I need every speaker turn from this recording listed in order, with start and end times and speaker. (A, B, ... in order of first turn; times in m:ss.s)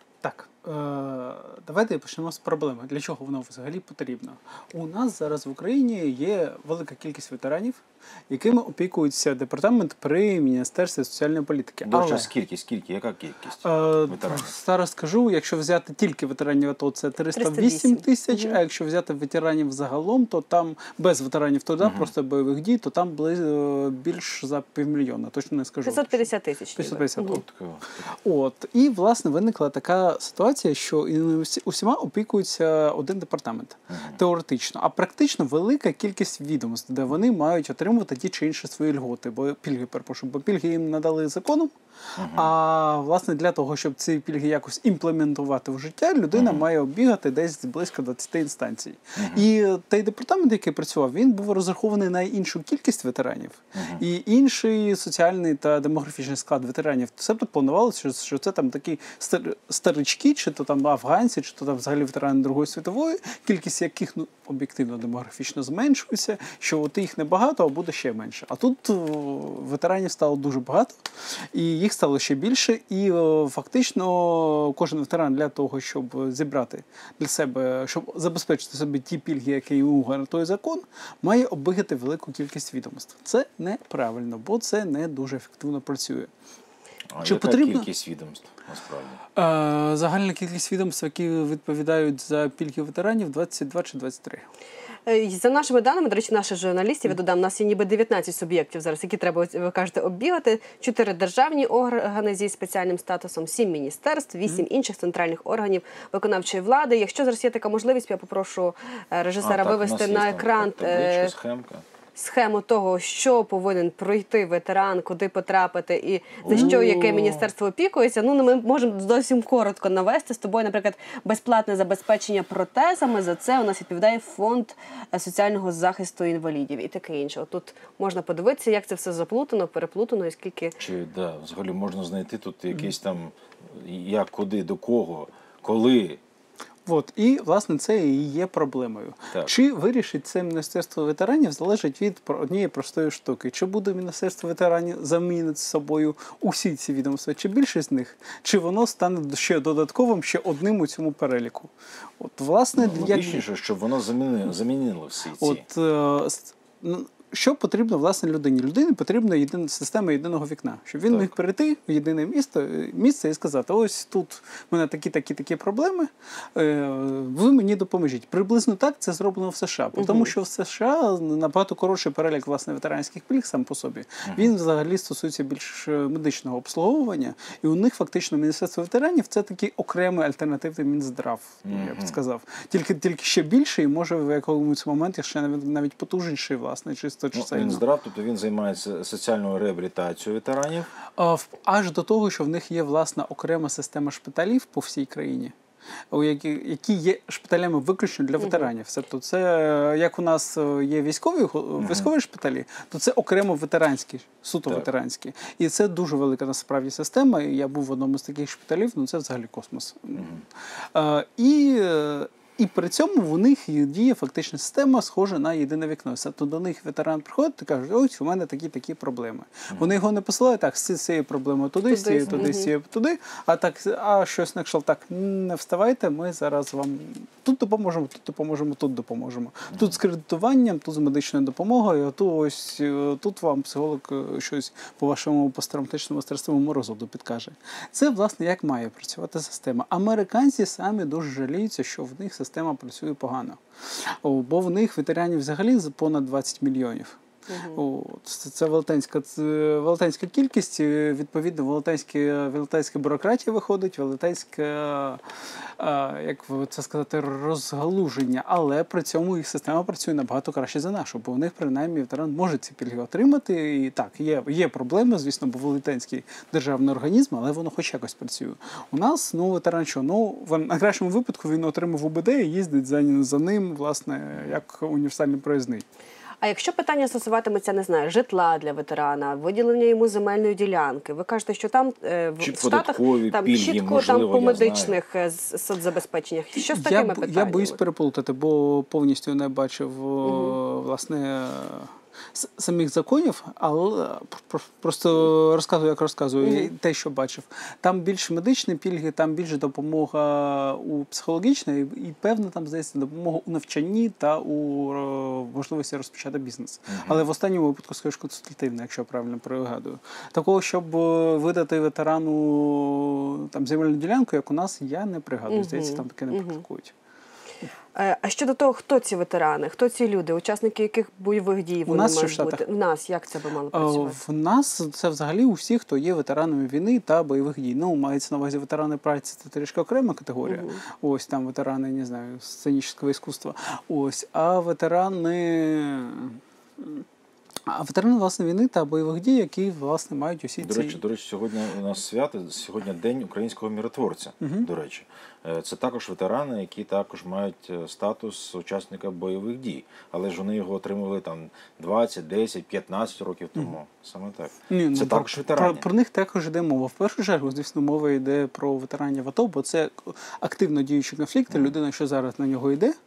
0:00.2-0:12.3 A
0:11.8-0:14.5 B
0:13.6-0:27.4 A
0:17.3-0:18.6 C
0:21.8-0:22.1 B
0:25.8-0:27.4 C
0:27.2-0:27.9 B
0:28.0-1:26.3 A
0:33.9-0:34.2 B
0:42.2-0:42.5 B
0:46.3-0:46.6 B
0:49.2-0:49.4 B
1:27.1-1:29.2 B
1:27.2-1:27.9 A
1:29.4-1:34.4 A
1:35.0-1:51.3 C
1:49.4-1:51.8 B
1:52.2-2:10.7 C
1:56.4-1:57.5 B
1:56.5-1:56.8 A
2:10.8-2:16.2 B
2:16.8-2:33.4 A
2:32.8-2:35.6 B
2:35.4-3:07.8 A
2:49.9-2:50.3 C
2:54.2-2:54.5 B
3:01.6-3:02.2 B
3:07.3-3:10.9 B
3:11.2-3:15.5 A
3:16.1-4:07.2 A
3:18.4-3:18.7 C
3:21.8-3:22.1 B
3:41.9-3:42.7 C
4:07.5-4:07.8 C
4:07.7-4:35.8 A
4:36.4-4:47.8 C
4:42.4-4:45.0 B
4:46.6-5:16.9 A
4:50.2-4:50.5 C
4:56.4-4:56.7 C
5:06.9-5:07.2 B
5:15.5-5:16.6 C
5:17.9-5:24.2 C
5:21.8-5:22.6 A
5:23.7-5:37.0 A
5:30.4-5:30.8 C
5:37.7-5:41.0 A
5:40.6-5:55.8 B
5:44.4-5:44.7 A
5:54.7-6:02.9 A